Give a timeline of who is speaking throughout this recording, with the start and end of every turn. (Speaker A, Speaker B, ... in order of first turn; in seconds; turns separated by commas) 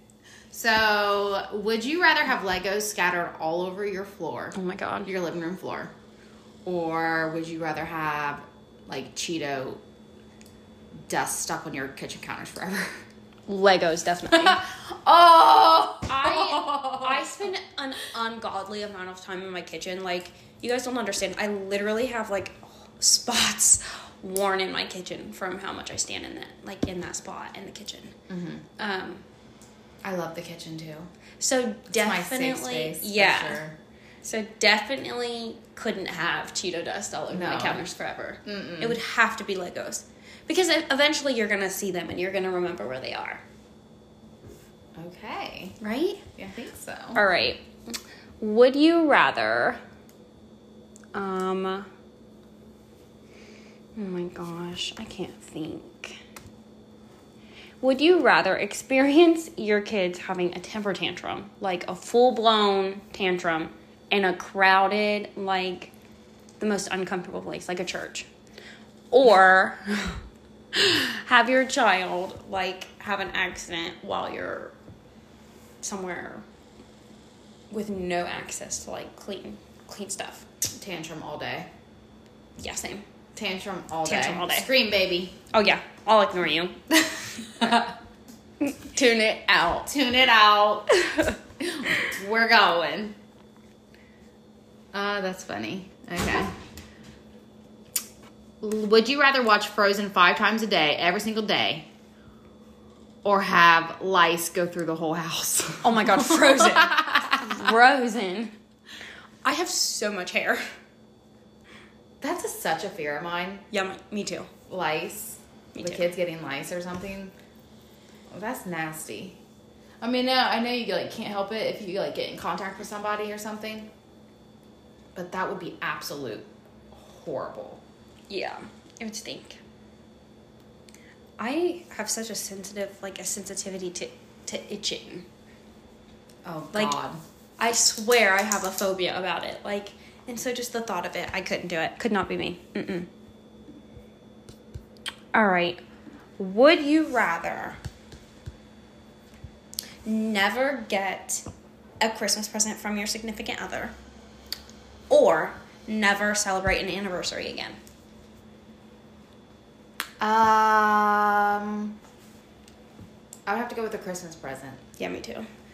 Speaker A: 0.5-5.9, Speaker B: 4.5-5.1, Speaker A: 6.7-9.8, Speaker A: 11.1-13.0, Speaker B: 13.5-14.7, Speaker A: 14.3-17.3, Speaker B: 16.1-28.1, Speaker A: 28.3-28.6, Speaker B: 28.8-29.2, Speaker A: 30.0-31.1, Speaker B: 31.4-33.6, Speaker A: 31.9-33.8, Speaker B: 34.2-43.4, Speaker A: 37.3-37.8, Speaker A: 38.5-39.0, Speaker A: 45.0-45.8, Speaker B: 45.8-46.2, Speaker A: 46.4-47.2, Speaker B: 47.1-47.6, Speaker B: 48.4-49.8, Speaker B: 51.1-51.9, Speaker B: 54.0-56.2, Speaker B: 57.8-65.9, Speaker B: 66.6-68.3, Speaker B: 69.1-70.2, Speaker B: 70.7-74.7, Speaker B: 75.8-76.4, Speaker B: 77.7-80.4, Speaker A: 80.8-81.7, Speaker B: 82.6-83.0, Speaker A: 83.3-85.3, Speaker B: 84.0-84.7, Speaker B: 85.5-87.9, Speaker B: 88.6-89.9, Speaker A: 89.9-93.2, Speaker A: 94.9-96.5, Speaker A: 98.6-101.9, Speaker A: 103.2-107.4, Speaker B: 105.8-108.5, Speaker B: 109.4-110.6, Speaker A: 112.2-113.6, Speaker B: 113.7-114.5, Speaker A: 114.7-117.3, Speaker B: 115.7-116.1, Speaker A: 118.3-119.4, Speaker A: 120.0-123.9, Speaker A: 125.1-127.8, Speaker B: 128.3-129.6, Speaker B: 131.4-135.3, Speaker A: 136.4-137.2, Speaker B: 137.6-143.1, Speaker B: 145.3-145.8, Speaker B: 146.4-147.8, Speaker B: 150.1-151.5, Speaker B: 152.0-153.9, Speaker B: 155.1-157.8, Speaker A: 160.2-161.9, Speaker A: 163.5-164.8, Speaker B: 165.0-165.5